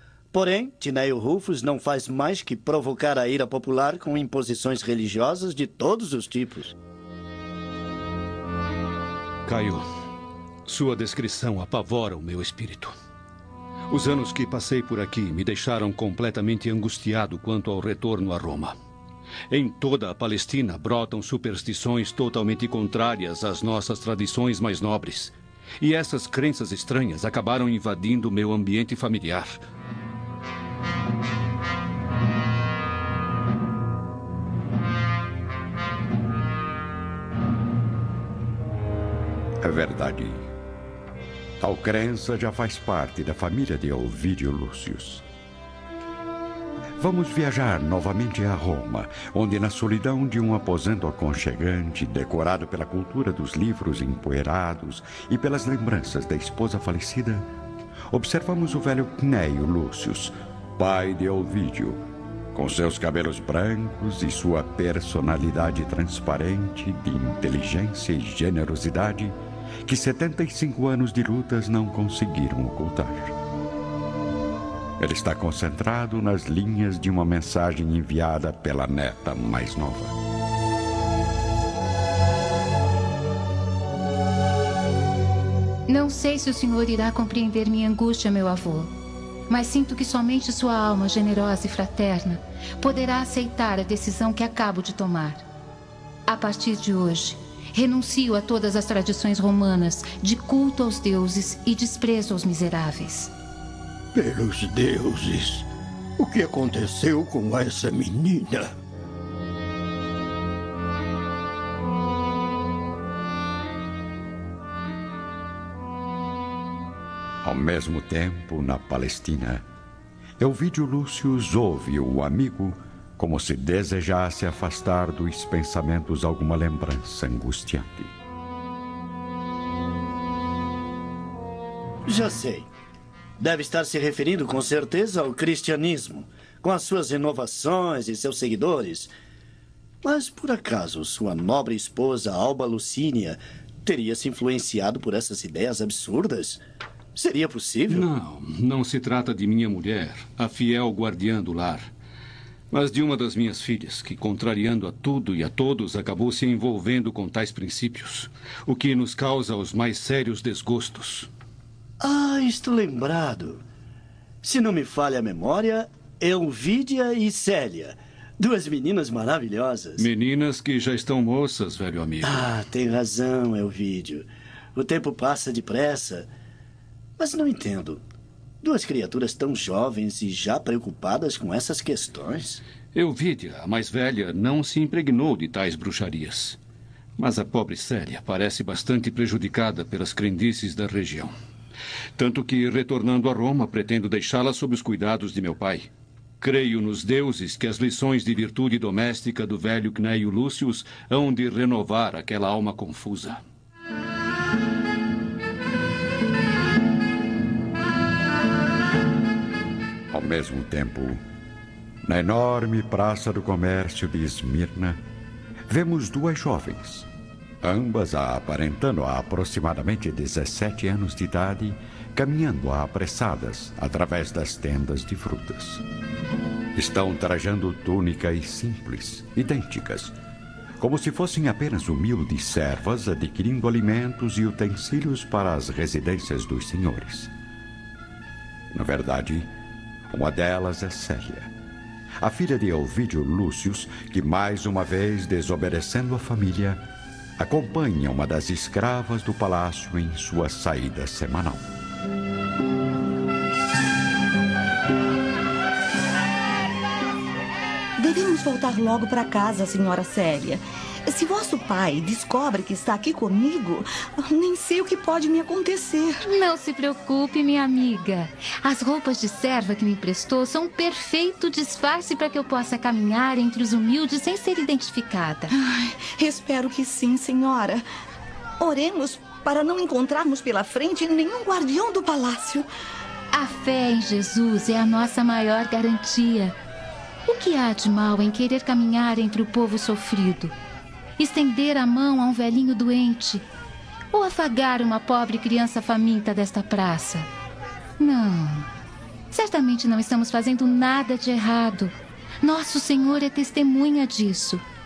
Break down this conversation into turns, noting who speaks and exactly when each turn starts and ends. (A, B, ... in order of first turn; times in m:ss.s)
0:00.3-0:06.7 A
0:09.4-0:09.8 B
0:10.6-0:12.9 B
0:13.9-0:18.7 B
0:19.5-0:29.6 B
0:39.6-0:40.4 C
0:41.6-0:45.2 C
0:47.0-0:57.5 C
0:58.1-1:02.0 C
1:02.5-1:09.3 C
1:09.8-1:13.3 C
1:15.0-1:20.1 C
1:25.9-1:28.9 D
1:29.5-1:35.4 D
1:36.3-1:43.3 D
1:44.1-1:45.6 E
1:46.2-1:48.7 E
1:57.4-1:59.6 C
2:00.4-2:08.1 C
2:12.0-2:12.7 A
2:13.4-2:19.1 A
2:20.0-2:26.6 A
2:27.2-2:28.0 A
2:27.9-2:31.9 B
2:32.7-2:41.3 B
2:42.0-2:43.6 A
2:44.4-2:50.0 A
2:50.0-2:52.5 B
2:52.2-2:56.3 A
2:57.2-2:58.0 A
2:58.6-3:02.6 A
3:02.9-3:06.6 B
3:07.2-3:11.3 B
3:12.2-3:15.9 B
3:16.4-3:23.4 B
3:30.1-3:31.2 C
3:32.0-3:35.0 C
3:35.7-3:37.1 C
3:37.6-3:45.8 C
3:46.7-3:50.1 C
3:50.8-3:57.3 C
3:58.7-3:59.5 C
4:00.1-4:01.5 C
4:02.2-4:06.8 C
4:07.4-4:11.7 C
4:18.0-4:26.2 F
4:26.2-4:35.5 D
4:35.6-4:37.8 F
4:38.6-4:42.7 F
4:43.3-4:46.5 D
4:47.2-4:50.5 D
4:51.2-4:53.4 D
4:54.1-4:57.3 D
4:58.0-4:58.7 D
4:59.3-5:04.6 D